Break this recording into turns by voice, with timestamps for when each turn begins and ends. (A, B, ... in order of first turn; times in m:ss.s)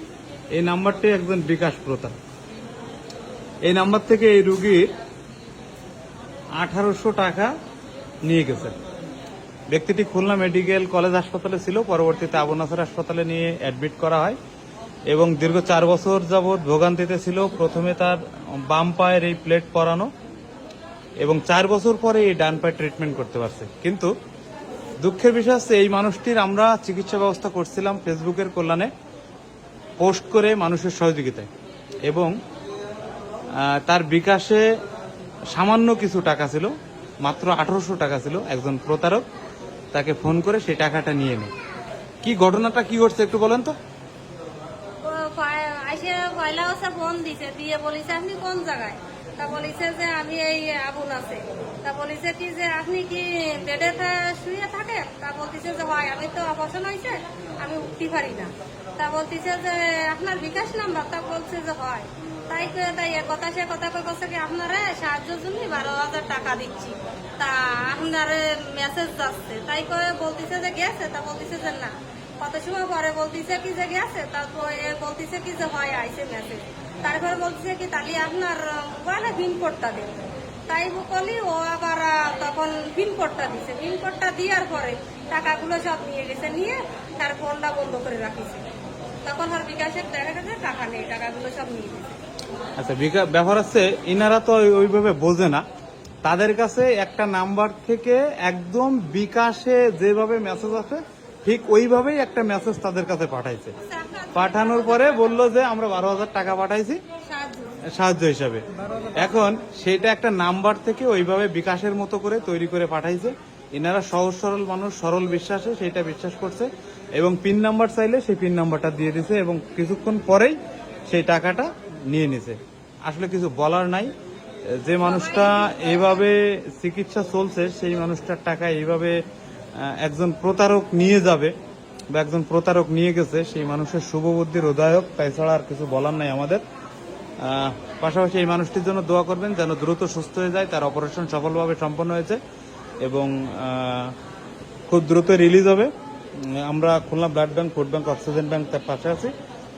0:00.5-0:02.1 A
0:03.6-0:04.9 A
0:06.6-0:07.5 A
0:08.3-0:08.8 A
0:09.7-0:14.4 A
0:15.1-0:20.1 A
0:21.2-0:24.1 A
0:25.0-0:28.9 A
0:30.0-0:31.5 A
0:32.1-0:32.4 A
0:33.6-0:34.7 A
0:35.5-0:39.2 A
0:39.9-0:41.5 A
0:42.2-0:43.8 A
0:45.0-1:20.2 B
1:20.7-1:28.7 B
1:29.2-1:32.2 B
1:32.8-1:35.6 A
1:36.2-1:43.7 A
1:43.9-1:45.5 B
1:44.4-1:47.0 A
1:47.3-1:47.8 B
1:47.9-1:48.6 A
1:49.2-2:00.6 A
2:01.1-2:04.1 A
2:04.7-2:09.2 A
2:05.0-2:06.2 B
2:09.8-2:11.6 A
2:12.1-2:16.6 A
2:17.4-2:22.4 A
2:23.0-2:24.2 A
2:24.9-2:29.3 A